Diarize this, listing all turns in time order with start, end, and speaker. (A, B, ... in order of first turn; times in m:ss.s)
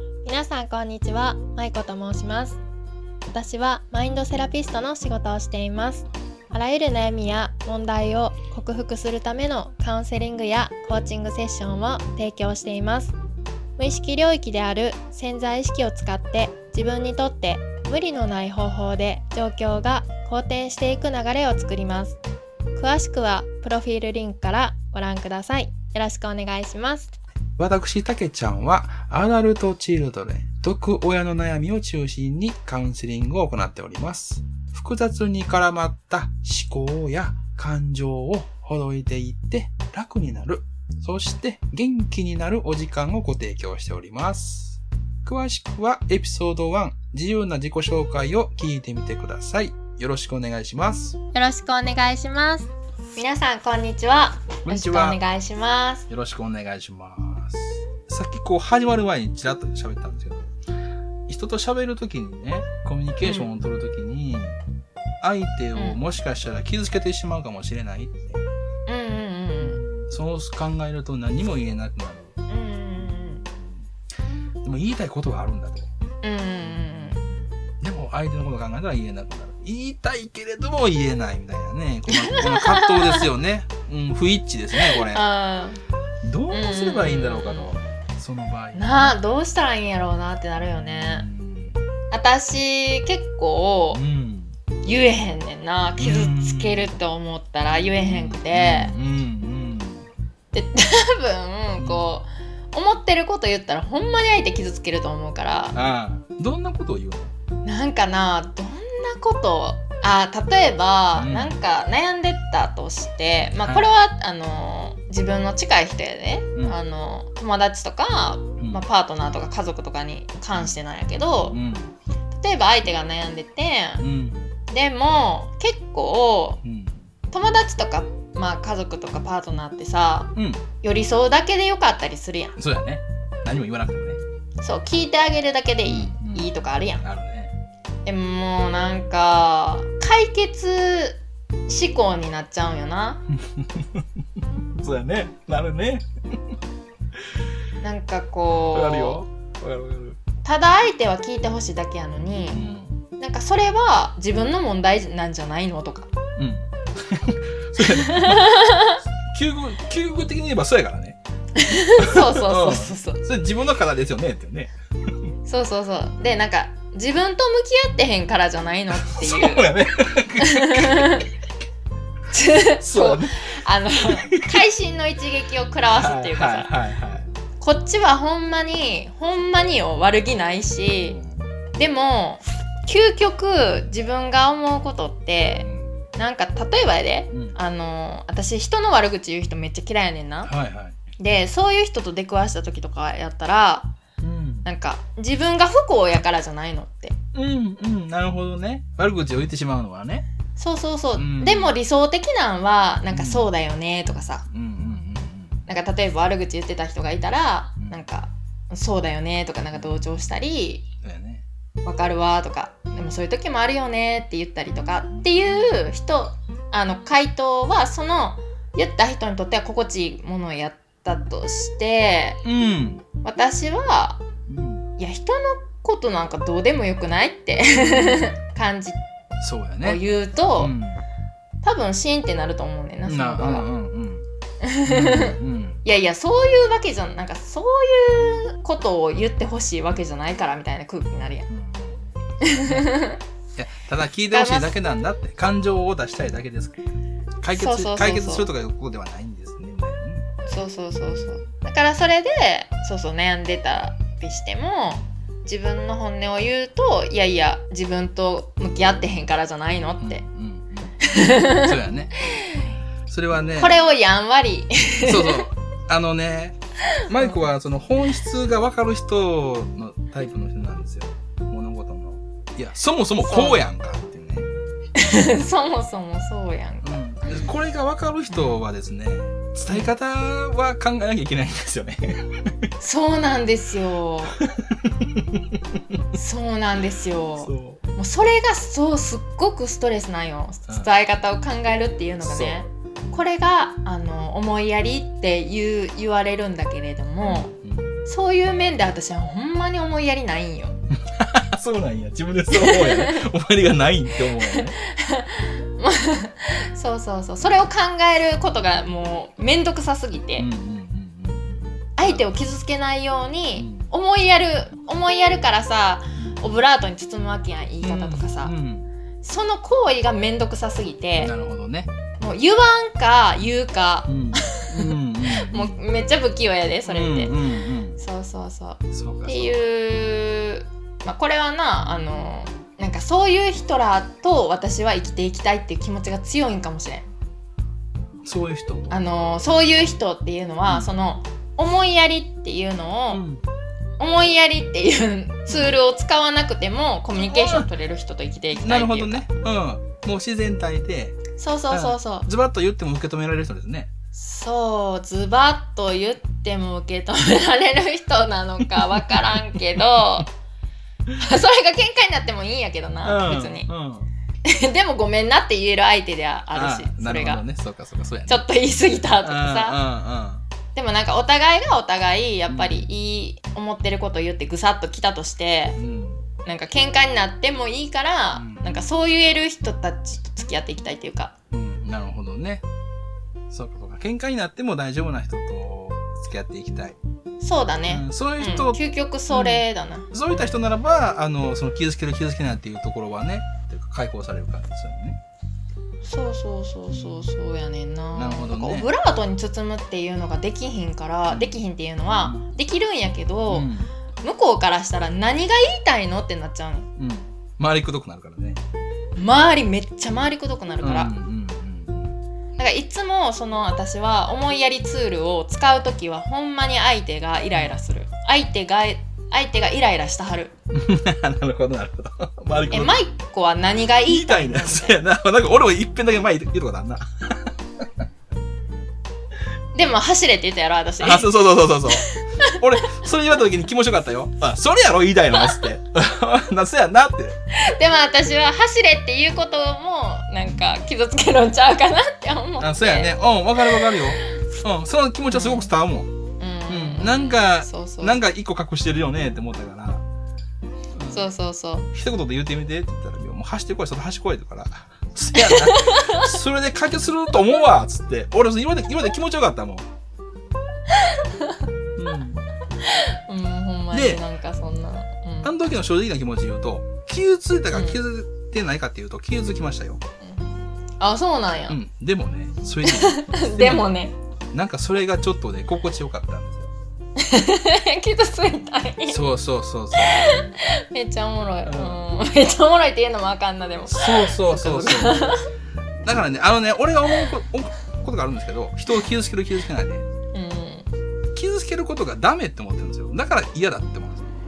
0:00.2-0:02.6 A
0:03.3-0:13.2 A
0:13.8-0:22.2 A
0:22.8-0:27.1 A
0:27.6-0:51.2 B
0:51.3-0:56.1 A
0:54.6-0:55.2 B
0:56.1-1:00.5 B
1:01.3-1:04.6 B
1:03.2-1:03.5 A
1:05.2-1:08.4 B
1:08.9-1:09.8 A
1:09.6-1:12.3 B
1:12.5-1:13.5 A
1:14.6-1:15.9 B
1:16.2-1:17.2 A
1:16.6-1:25.2 B
1:22.1-1:23.3 A
1:24.8-1:25.8 A
1:26.2-1:29.2 B
1:26.5-1:27.7 A
1:28.8-1:31.3 A
1:30.6-1:31.8 B
1:32.1-1:34.0 A
1:33.9-1:34.6 B
1:34.8-1:39.0 A
1:36.0-1:37.0 B
1:38.1-1:40.1 B
1:40.5-1:45.8 A
1:41.8-1:42.1 B
1:45.7-1:47.3 B
1:47.6-2:01.6 A
1:51.2-1:51.5 B
1:53.6-1:53.9 B
2:01.5-2:02.0 B
2:02.3-2:04.0 A
2:04.0-2:04.5 B
2:04.7-2:06.6 A
2:06.6-2:07.1 B
2:07.3-2:12.6 A
2:10.4-2:10.7 B
2:12.6-2:14.2 B
2:14.6-2:17.0 A
2:15.8-2:16.5 B
2:17.0-2:17.5 B
2:18.1-2:23.2 A
2:23.3-2:26.1 B
2:27.8-2:29.2 A
2:28.7-2:30.2 B
2:30.4-2:32.6 A
2:32.5-2:33.0 B
2:33.2-2:36.1 A
2:36.4-2:38.6 B
2:37.8-2:39.0 A
2:39.3-2:41.2 B
2:41.6-2:43.2 A
2:42.0-2:44.7 B
2:45.5-2:49.7 A
2:48.9-2:51.3 B
2:50.4-2:51.3 A
2:52.3-2:56.7 A
2:52.8-2:53.5 B
2:54.2-2:54.5 B
2:55.9-2:57.3 B
2:57.6-3:01.2 A
3:01.0-3:01.5 B
3:01.8-3:10.5 A
3:05.6-3:06.0 B
3:07.3-3:07.6 B
3:10.4-3:11.0 B
3:11.2-3:13.9 A
3:14.2-3:14.7 B
3:14.6-3:17.2 A
3:17.3-3:20.3 B
3:20.6-3:24.5 A
3:21.2-3:21.8 B
3:23.1-3:23.5 B
3:24.5-3:25.7 B
3:25.7-3:30.9 A
3:27.8-3:28.0 B
3:29.7-3:30.1 B
3:31.0-3:31.4 B
3:31.8-3:42.4 A
3:35.1-3:35.8 B
3:42.4-3:43.0 B
3:43.2-3:44.2 A
3:44.5-3:44.9 B
3:45.0-3:49.0 A
3:47.9-3:48.3 B
3:49.4-3:50.0 B
3:49.8-3:50.8 A
3:50.6-3:51.0 B
3:51.6-3:53.7 A
3:53.1-3:54.3 B
3:54.6-4:01.5 A
3:54.9-3:55.8 B
4:01.5-4:02.9 B
4:02.4-4:03.2 A
4:03.6-4:06.8 B
4:04.3-4:04.8 A
4:07.4-4:10.3 B
4:07.5-4:08.5 A
4:10.5-4:20.2 A
4:20.0-4:22.2 B
4:21.0-4:21.8 A
4:22.4-4:22.7 A
4:23.1-4:23.8 B
4:23.6-4:25.5 A
4:25.0-4:34.5 B
4:27.1-4:27.4 A
4:33.2-4:33.6 A
4:35.0-4:37.0 A
4:36.8-4:42.6 B
4:38.3-4:38.6 A
4:42.8-4:44.4 A
4:44.4-4:46.0 B
4:46.1-4:57.5 A
4:47.4-4:47.8 B
4:50.7-4:50.9 B
4:52.2-4:52.6 B
4:57.2-4:58.0 B
4:58.1-5:00.8 A
5:01.0-5:04.8 B
5:02.5-5:03.3 A
5:04.2-5:10.5 A
5:10.4-5:12.5 B
5:12.0-5:18.5 A
5:13.6-5:13.9 B
5:17.8-5:18.9 B
5:19.2-5:21.3 A
5:21.2-5:21.9 B
5:22.2-5:27.4 A
5:24.1-5:25.8 B
5:26.8-5:28.0 B
5:28.0-5:37.1 A
5:28.9-5:29.6 B
5:38.2-5:39.0 B
5:38.9-5:43.2 A
5:43.1-5:43.4 B
5:44.0-5:49.3 A
5:45.5-5:45.8 B
5:47.2-5:47.7 B
5:48.5-5:53.9 B
5:51.4-5:52.3 A
5:54.2-6:00.3 A
5:59.8-6:00.0 B
6:01.2-6:03.7 A
6:03.0-6:04.1 B
6:04.4-6:07.4 A
6:06.5-6:08.4 B
6:08.3-6:09.8 A
6:09.2-6:10.5 B
6:10.7-6:15.8 A
6:12.5-6:12.9 B
6:15.8-6:16.3 B
6:16.5-6:21.3 A
6:18.3-6:18.8 B
6:21.5-6:22.6 B
6:23.5-6:27.0 B
6:27.4-6:30.1 A
6:27.9-6:28.8 B
6:29.3-6:35.2 B
6:36.0-6:43.7 A
6:36.9-6:37.3 B
6:38.1-6:38.9 B
6:41.3-6:41.6 B
6:42.2-6:42.5 B
6:43.5-6:43.9 B
6:44.2-6:46.9 A
6:47.0-6:48.6 B
6:49.2-6:51.1 A
6:50.8-6:52.2 B
6:52.6-7:00.5 A
7:00.7-7:03.0 B
7:02.7-7:05.0 A
7:04.1-7:07.5 B
7:09.7-7:11.3 A
7:11.0-7:17.4 B
7:12.2-7:12.6 A
7:17.5-7:24.1 A
7:22.6-7:26.1 B
7:25.3-7:25.7 A
7:26.4-7:28.2 A
7:26.7-7:30.0 B
7:31.0-7:31.3 B
7:31.1-7:31.9 A
7:31.9-7:39.9 B
7:35.4-7:36.4 A
7:40.9-7:41.6 A
7:42.0-7:42.4 B
7:42.8-7:45.5 A
7:43.9-7:44.2 B
7:45.4-7:50.0 B
7:47.7-7:48.0 A
7:51.0-7:51.8 A
7:51.7-7:53.9 B
7:52.8-7:54.2 A
7:54.5-7:56.7 B
7:57.2-7:59.2 A
7:59.1-8:00.4 B
8:00.0-8:05.4 A
8:01.6-8:02.1 B
8:03.9-8:05.2 B
8:06.0-8:10.1 B
8:10.3-8:10.9 A
8:11.4-8:14.3 B